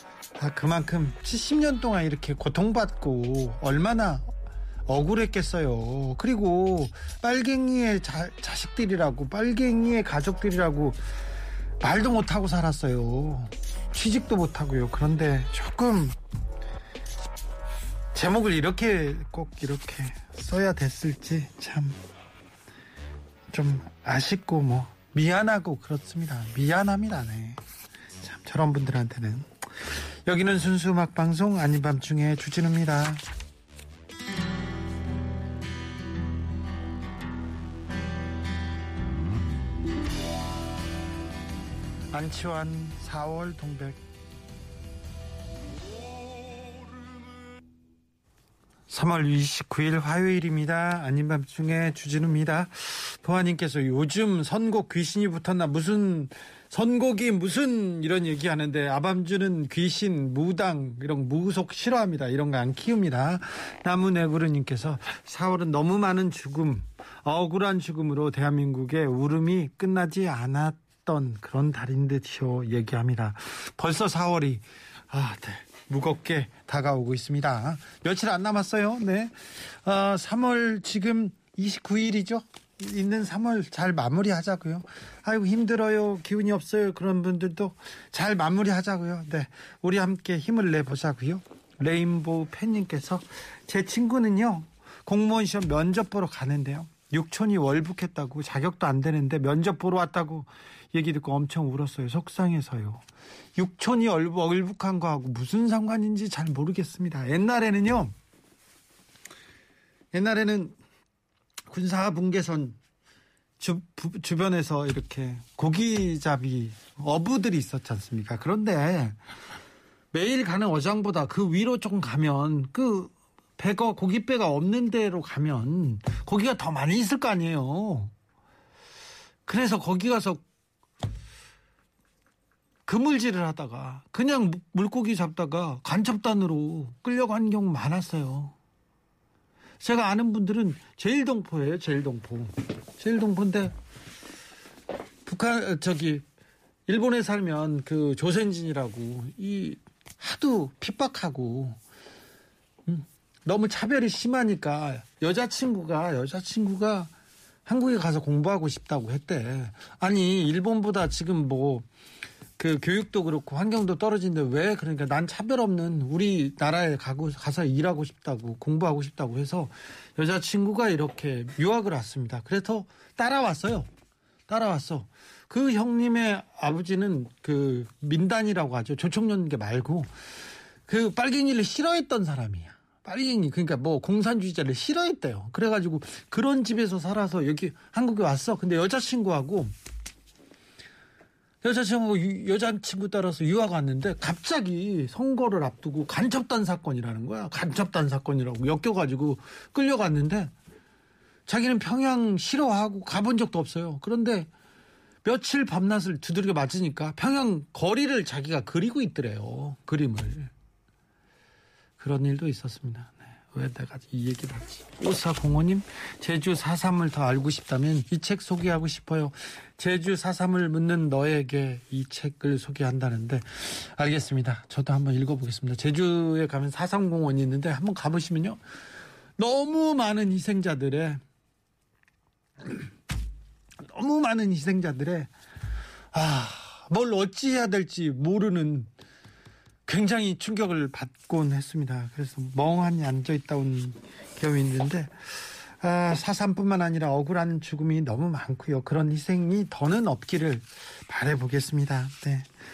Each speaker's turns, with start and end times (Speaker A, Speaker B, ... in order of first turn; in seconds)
Speaker A: 0.4-4.3, 4.9-11.0, 11.8-16.2, 18.1-22.0, 23.5-27.6, 28.2-33.2, 42.1-44.0, 48.9-103.0, 103.6-108.1, 110.1-110.8, 111.7-112.8, 113.6-119.2, 120.1-128.1, 129.5-130.4, 132.9-138.6, 139.8-143.7, 145.3-146.2, 146.9-151.8, 152.9-157.1, 157.7-161.9, 162.6-173.9, 174.5-180.1, 180.9-189.7, 191.6-200.5, 201.5-204.5, 205.2-210.5, 212.0-228.6, 229.4-231.2, 233.8-235.3, 236.1-238.9, 239.9-245.2, 245.8-252.5